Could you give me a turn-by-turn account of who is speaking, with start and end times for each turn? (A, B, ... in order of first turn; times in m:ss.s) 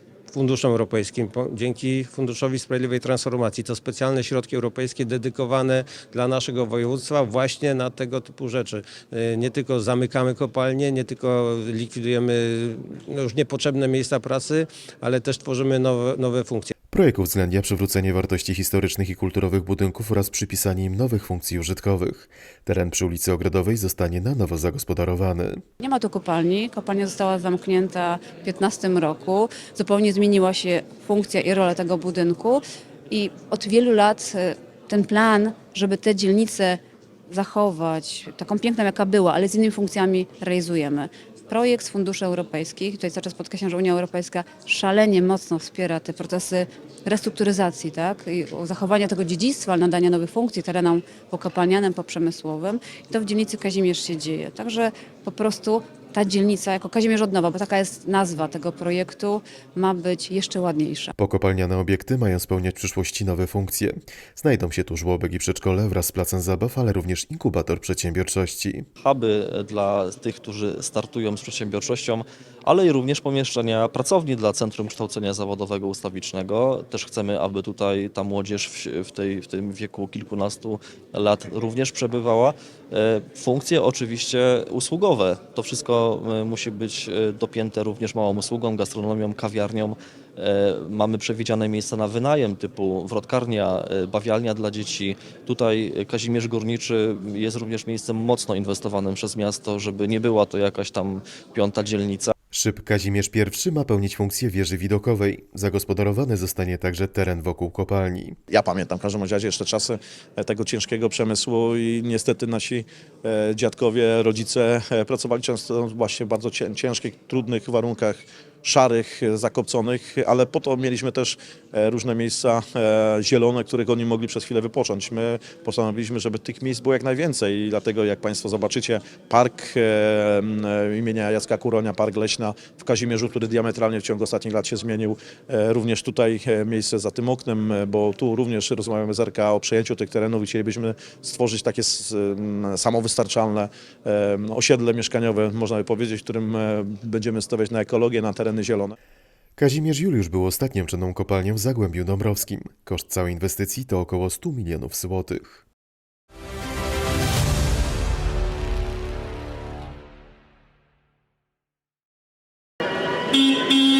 0:00.3-0:16.7 A
0:16.9-0:25.6 B
0:25.8-1:01.1 C
1:01.2-1:08.8 B
1:09.0-1:42.3 D
1:42.5-1:48.4 B
1:48.5-2:28.9 E
2:29.6-2:35.6 B